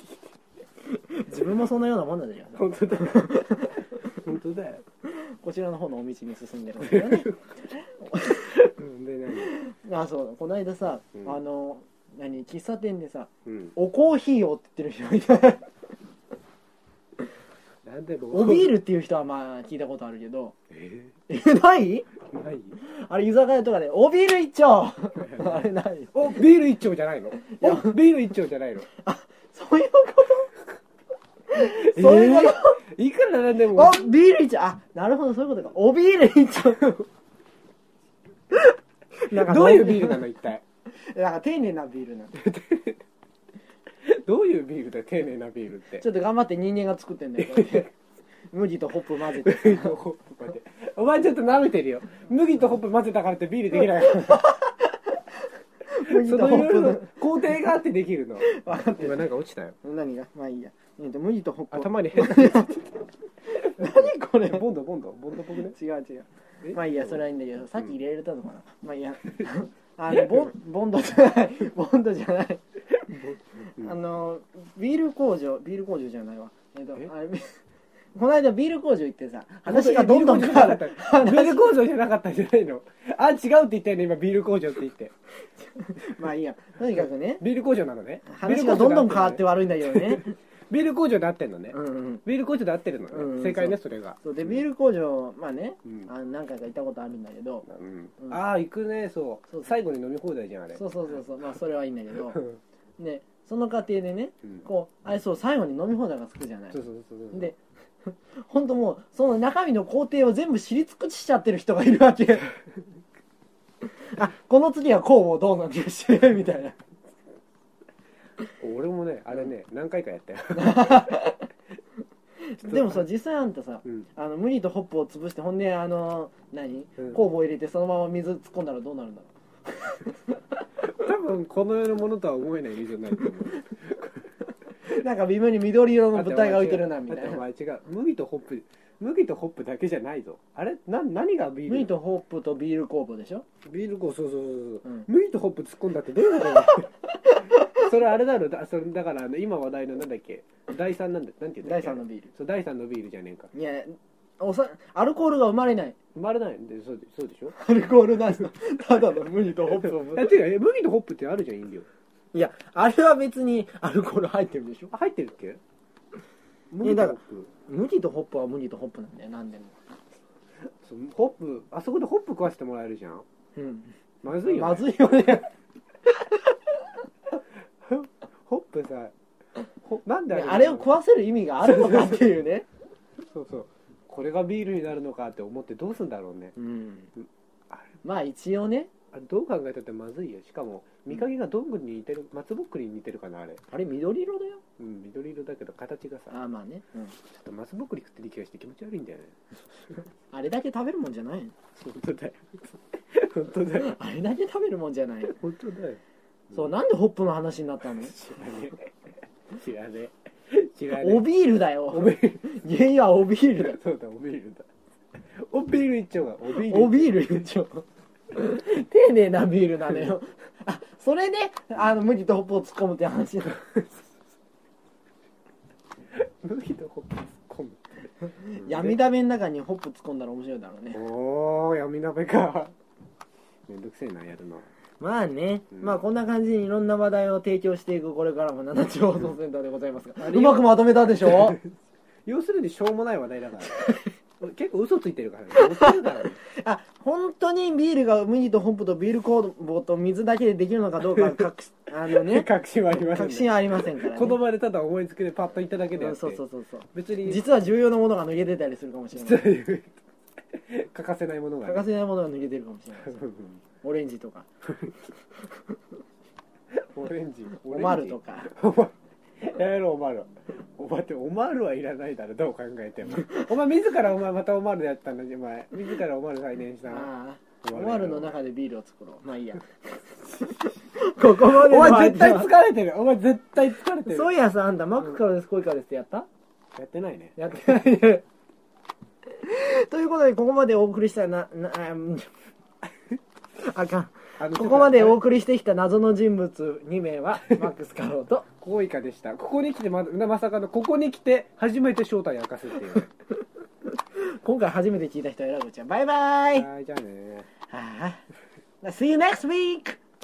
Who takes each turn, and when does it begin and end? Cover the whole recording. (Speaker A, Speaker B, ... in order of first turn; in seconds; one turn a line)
Speaker A: 0.9-4.1
Speaker B: 2.5-3.4
Speaker B: 4.0-4.8
Speaker A: 5.0-8.6
Speaker B: 6.8-7.3
Speaker B: 8.4-9.6
Speaker A: 9.3-15.7
Speaker B: 13.5-13.7
Speaker B: 17.8-18.8
Speaker A: 18.3-20.5
Speaker B: 20.7-21.1
Speaker A: 21.3-22.1
Speaker B: 22.3-22.8
Speaker A: 22.8-26.4
Speaker B: 25.2-25.6
Speaker B: 26.1-28.9
Speaker A: 27.4-28.0
Speaker A: 29.0-30.6
Speaker A: 31.5-32.8
Speaker B: 31.6-34.1
Speaker A: 33.7-37.0
Speaker A: 38.5-40.3
Speaker B: 39.3-40.6
Speaker A: 40.9-42.4
Speaker B: 42.4-43.0
Speaker B: 44.0-46.0
Speaker A: 46.0-47.9
Speaker B: 47.4-47.9
Speaker A: 48.5-50.0
Speaker B: 49.3-54.6
Speaker A: 54.1-54.7
Speaker A: 55.9-57.2
Speaker B: 56.0-59.8
Speaker A: 58.4-59.2
Speaker A: 59.8-62.9
Speaker B: 61.7-62.8
Speaker A: 63.5-64.6
Speaker B: 63.8-65.8
Speaker A: 65.6-72.6
Speaker B: 66.6-67.2
Speaker B: 73.0-73.9
Speaker A: 73.7-77.6
Speaker A: 78.1-81.8
Speaker B: 79.6-85.1
Speaker A: 85.8-87.4
Speaker B: 87.4-94.5
Speaker A: 88.3-90.3
Speaker A: 91.7-92.2
Speaker A: 93.1-97.6
Speaker B: 97.6-100.8
Speaker A: 100.7-102.4
Speaker B: 102.3-102.6
Speaker A: 103.0-106.8
Speaker B: 106.7-107.5
Speaker A: 107.3-112.5
Speaker A: 114.1-116.8
Speaker B: 118.6-121.3
Speaker A: 120.5-121.5
Speaker A: 122.4-130.4
Speaker B: 122.6-123.0
Speaker B: 130.8-134.3
Speaker A: 134.9-137.4
Speaker B: 136.1-141.9
Speaker A: 141.7-143.4
Speaker B: 143.6-153.5
Speaker A: 147.2-147.7
Speaker A: 151.6-152.3
Speaker A: 153.5-155.9
Speaker B: 156.1-157.5
Speaker A: 157.6-160.4
Speaker B: 160.0-161.9
Speaker A: 162.3-164.9
Speaker B: 164.9-165.6
Speaker B: 166.7-167.5
Speaker A: 166.8-169.8
Speaker B: 170.8-173.2
Speaker A: 173.6-175.5
Speaker B: 174.2-174.9
Speaker A: 176.2-176.5
Speaker B: 177.8-179.1
Speaker B: 179.8-181.0
Speaker A: 180.3-182.7
Speaker B: 181.6-182.3
Speaker B: 183.3-186.5
Speaker A: 186.6-187.1
Speaker B: 187.2-188.0
Speaker A: 188.0-188.9
Speaker B: 189.1-193.6
Speaker A: 193.7-194.6
Speaker B: 194.8-196.3
Speaker A: 196.3-197.2
Speaker B: 197.3-199.3
Speaker A: 200.3-201.5
Speaker B: 201.8-203.9
Speaker A: 203.7-205.3
Speaker B: 205.2-206.0
Speaker A: 206.5-208.1
Speaker B: 208.0-208.9
Speaker B: 209.5-211.2
Speaker A: 210.9-213.8
Speaker B: 211.9-212.5
Speaker B: 213.6-214.7
Speaker B: 215.4-217.5
Speaker A: 216.6-223.7
Speaker B: 226.1-227.8
Speaker A: 228.5-231.0
Speaker B: 228.5-229.0
Speaker B: 230.9-232.7
Speaker B: 233.7-234.7
Speaker A: 235.0-241.6
Speaker B: 240.2-243.8
Speaker A: 243.7-244.0
Speaker B: 244.4-246.4
Speaker A: 245.6-254.4
Speaker B: 251.1-251.5
Speaker B: 252.1-256.4
Speaker A: 255.9-259.4
Speaker B: 256.9-257.4
Speaker B: 259.1-259.9
Speaker B: 260.5-261.9
Speaker A: 261.6-263.2
Speaker B: 263.0-263.6
Speaker A: 263.8-264.5
Speaker B: 264.7-264.9
Speaker B: 266.8-277.1
Speaker A: 267.6-268.5
Speaker A: 276.9-279.6
Speaker B: 277.6-278.4
Speaker A: 280.4-282.5
Speaker B: 281.3-284.3
Speaker A: 284.0-286.3
Speaker B: 286.7-287.4
Speaker A: 287.4-288.2
Speaker A: 289.4-292.3
Speaker A: 293.6-298.4
Speaker B: 294.4-295.2
Speaker B: 298.6-303.1
Speaker A: 304.1-306.7
Speaker B: 306.5-307.5
Speaker A: 307.7-308.2
Speaker A: 308.8-310.0